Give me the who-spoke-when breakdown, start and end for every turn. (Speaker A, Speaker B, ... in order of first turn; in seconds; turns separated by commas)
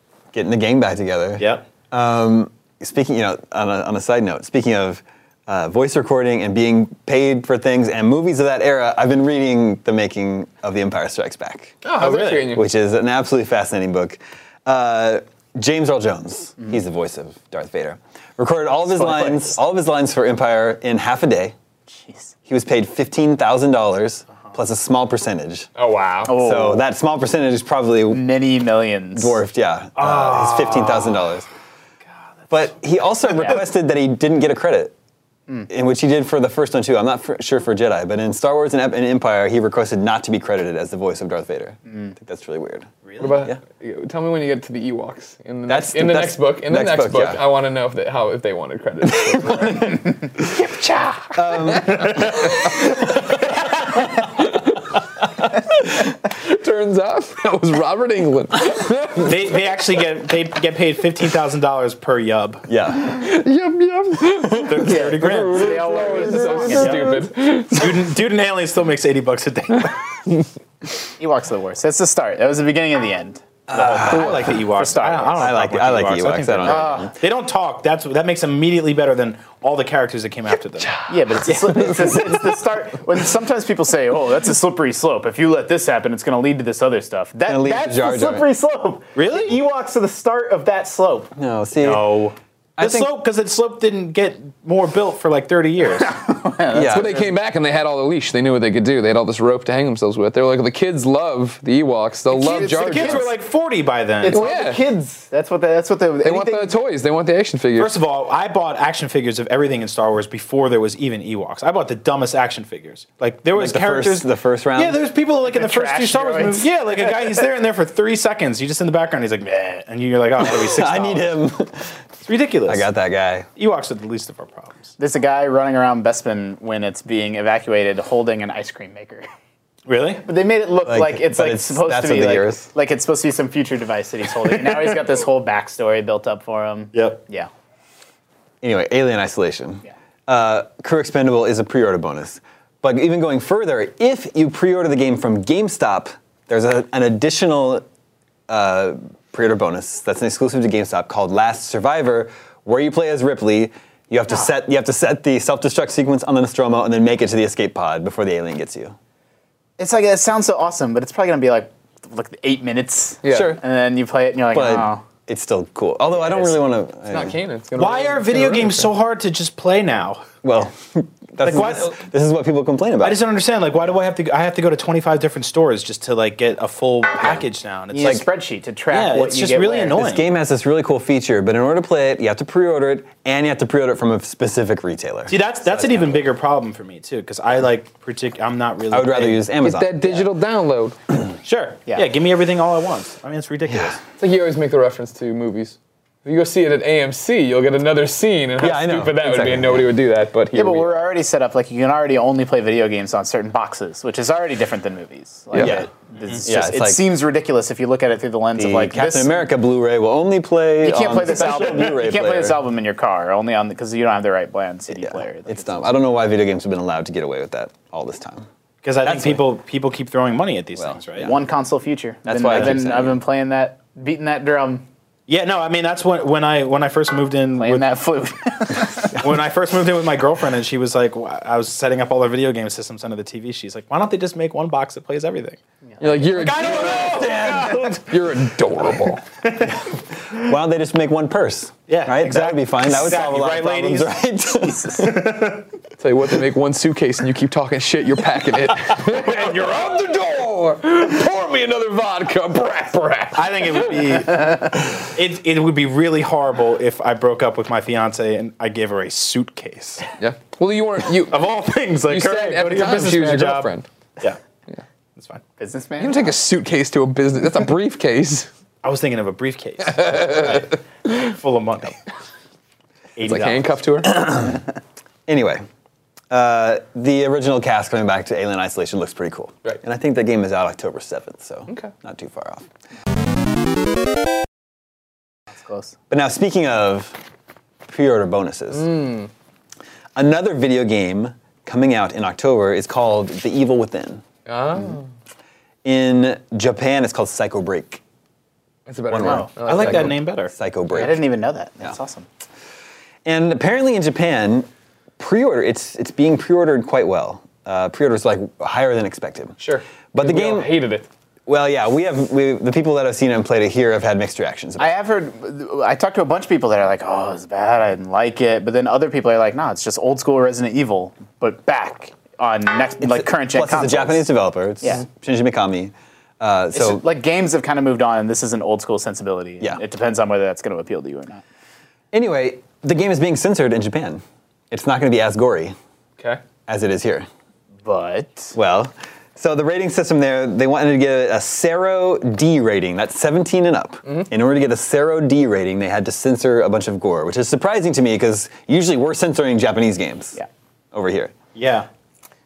Speaker A: 0.3-11.8, Speaker B: 1.4-1.6, Speaker C: 11.8-12.6, Speaker B: 11.9-12.5, Speaker A: 12.4-21.5, Speaker D: 18.9-19.6, Speaker D: 21.9-22.3, Speaker A: 22.5-25.7, Speaker C: 25.8-26.4, Speaker D: 26.3-26.8, Speaker A: 26.3-28.3, Speaker D: 28.1-29.4, Speaker A: 29.1-31.4, Speaker B: 30.0-31.3, Speaker A: 32.5-34.9, Speaker D: 33.3-33.6, Speaker A: 35.7-42.9, Speaker B: 43.0-43.4, Speaker C: 43.2-49.9, Speaker A: 45.7-47.4, Speaker A: 49.0-50.5, Speaker D: 50.5-51.5, Speaker A: 51.3-52.5, Speaker B: 51.9-52.4, Speaker C: 52.3-53.0, Speaker C: 54.1-54.5, Speaker C: 55.7-59.3, Speaker B: 59.2-62.6, Speaker A: 62.7-63.1, Speaker C: 63.0-67.9, Speaker B: 64.6-70.2, Speaker D: 64.8-67.2, Speaker D: 71.2-73.4, Speaker A: 73.7-74.6, Speaker B: 73.7-82.4, Speaker D: 74.1-75.5, Speaker A: 75.3-77.1, Speaker D: 76.6-77.2, Speaker D: 81.1-90.4, Speaker A: 87.5-88.5, Speaker B: 89.1-96.2, Speaker A: 91.3-92.2, Speaker A: 92.8-93.1, Speaker D: 96.0-97.3, Speaker A: 96.7-97.2, Speaker C: 96.8-103.3, Speaker D: 102.3-103.3, Speaker B: 102.5-104.4, Speaker D: 104.2-106.7, Speaker C: 104.2-104.8, Speaker C: 106.2-107.9, Speaker B: 107.8-121.4, Speaker A: 113.5-115.0, Speaker D: 115.4-117.1, Speaker A: 120.4-121.9, Speaker B: 122.2-122.8, Speaker A: 122.7-123.5, Speaker B: 123.5-124.9, Speaker D: 125.0-129.2, Speaker B: 129.8-130.2, Speaker D: 130.2-137.5, Speaker A: 130.8-132.7, Speaker B: 136.9-137.2, Speaker A: 138.6-147.8, Speaker A: 148.5-158.9, Speaker D: 159.8-165.0, Speaker C: 163.2-163.6, Speaker A: 163.3-163.6, Speaker A: 164.5-167.3, Speaker D: 166.1-166.5, Speaker C: 167.1-168.9, Speaker B: 167.8-170.3, Speaker A: 170.4-173.2, Speaker B: 171.4-171.9, Speaker B: 173.0-178.2, Speaker D: 177.9-180.0, Speaker B: 178.9-180.2, Speaker A: 179.9-186.3, Speaker B: 185.3-189.4, Speaker A: 188.9-190.3, Speaker C: 189.6-190.9, Speaker B: 191.4-194.0, Speaker A: 193.7-194.0, Speaker C: 194.2-200.9, Speaker A: 198.6-199.9, Speaker D: 200.5-209.4, Speaker C: 205.5-205.8, Speaker A: 205.6-205.9, Speaker A: 206.4-207.0, Speaker A: 208.6-212.6, Speaker D: 210.8-215.9, Speaker A: 214.9-218.5, Speaker B: 218.8-221.3, Speaker A: 219.0-219.4, Speaker A: 220.8-221.3, Speaker D: 221.2-224.8, Speaker A: 222.2-223.2, Speaker B: 225.3-227.9, Speaker D: 227.6-229.2, Speaker B: 229.2-235.6, Speaker C: 236.0-239.2, Speaker B: 236.2-238.0, Speaker A: 236.6-238.0, Speaker B: 239.4-239.7, Speaker A: 240.3-245.3, Speaker B: 241.9-244.1, Speaker B: 245.0-245.6, Speaker C: 246.0-254.2, Speaker B: 249.2-250.0, Speaker B: 253.3-260.1, Speaker C: 260.2-261.5, Speaker B: 261.3-264.4, Speaker C: 262.1-263.9, Speaker B: 265.1-265.4, Speaker D: 265.6-266.4, Speaker C: 266.0-268.5, Speaker B: 268.8-272.0, Speaker C: 270.0-270.6, Speaker B: 273.1-273.8, Speaker C: 273.2-274.2, Speaker A: 274.1-274.6, Speaker A: 275.3-275.6, Speaker A: 276.3-282.6, Speaker D: 285.5-285.9, Speaker A: 286.1-287.2, Speaker A: 287.9-288.9, Speaker C: 288.7-289.3, Speaker A: 290.1-294.2, Speaker C: 294.4-295.1, Speaker A: 295.8-298.0, Speaker C: 298.9-300.2, Speaker A: 299.1-301.2, Speaker D: 299.2-299.5, Speaker B: 299.6-300.5, Speaker D: 300.9-302.3, Speaker A: 303.2-309.6, Speaker C: 309.6-311.1, Speaker A: 310.1-310.7, Speaker A: 311.5-314.9, Speaker D: 314.8-324.3, Speaker A: 323.0-327.0, Speaker D: 326.7-331.4, Speaker A: 332.1-335.7, Speaker A: 336.7-337.3, Speaker D: 337.8-338.6, Speaker A: 338.5-350.4, Speaker A: 350.9-351.3, Speaker B: 351.5-351.9